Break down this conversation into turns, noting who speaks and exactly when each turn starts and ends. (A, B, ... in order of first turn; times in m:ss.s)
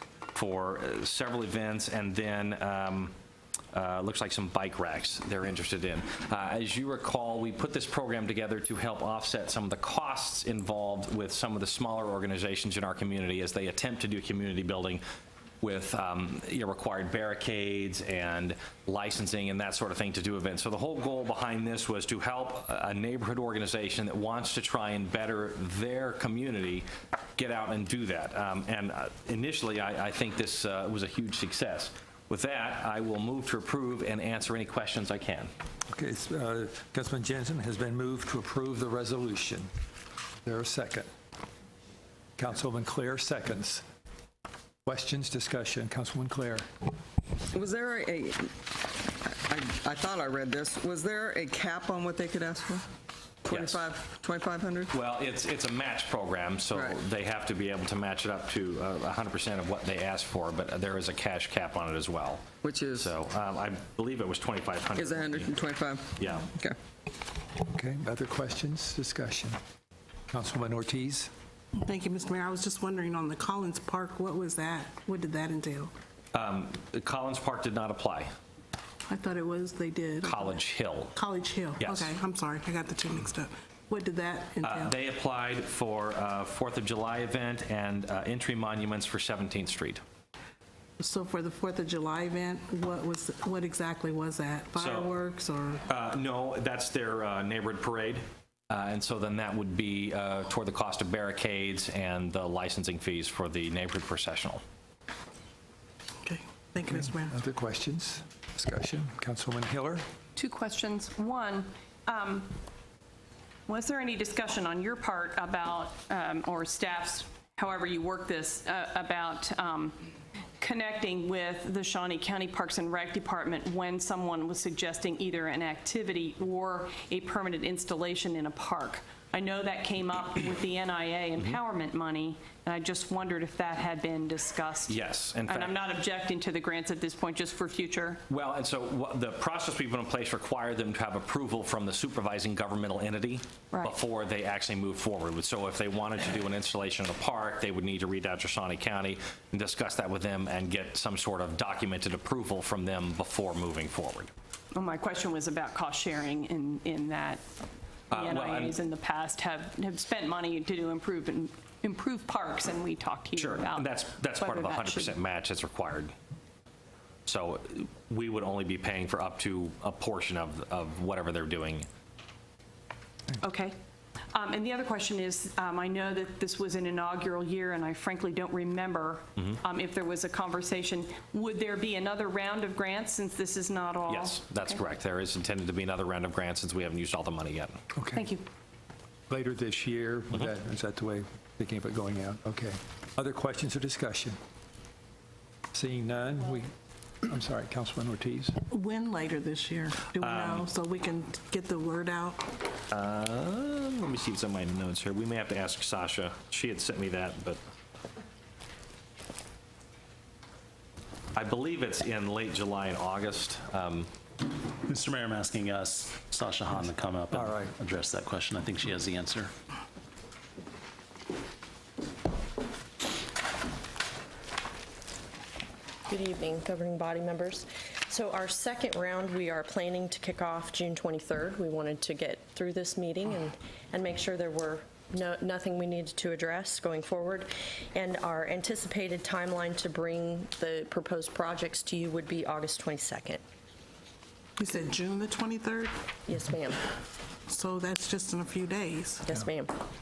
0:00.3-0:03.1 A
0:03.7-0:15.0 A
0:15.6-0:35.5 A
0:35.9-0:39.7 B
0:40.4-0:41.1 B
0:42.4-0:43.8 B
0:44.8-0:46.6 B
0:47.5-0:52.8 C
0:53.4-0:54.9 C
0:53.5-0:53.8 A
0:54.9-1:05.6 A
0:56.7-0:57.0 C
1:02.6-1:03.1 C
1:04.9-1:06.8 C
1:06.2-1:06.5 A
1:07.6-1:09.6 B
1:10.3-1:11.3 B
1:11.8-1:15.9 D
1:16.3-1:18.3 A
1:19.1-1:20.5 D
1:20.2-1:21.1 A
1:21.1-1:24.9 D
1:21.8-1:22.1 A
1:24.6-1:30.0 A
1:31.0-1:35.8 D
1:34.8-1:35.1 A
1:35.9-1:44.6 A
1:46.2-1:47.3 D
1:46.9-1:50.0 B
1:50.4-1:52.5 E
1:53.7-2:00.0 E
2:00.6-2:18.2 E
2:14.9-2:15.7 A
2:18.3-2:34.3 A
2:34.7-2:37.4 E
2:38.1-2:38.7 A
2:38.1-2:45.2 E
2:43.4-2:46.1 A
2:47.3-2:51.9 A
2:53.4-2:53.8 E
2:54.3-3:04.7 E
3:04.1-3:07.8 A
3:07.9-3:08.2 B
3:08.1-3:08.4 E
3:09.3-3:14.4 B
3:15.7-3:16.7 B
3:17.2-3:18.6 B
3:18.7-3:22.5 D
3:20.2-3:20.6 A
3:22.9-3:27.6 A
3:31.3-3:34.1 A
3:34.8-3:39.5 F
3:37.3-3:37.8 B
3:46.1-4:03.4 G
4:04.6-4:06.0 D
4:06.2-4:06.8 G
4:07.5-4:09.3 D
4:09.3-4:09.7 G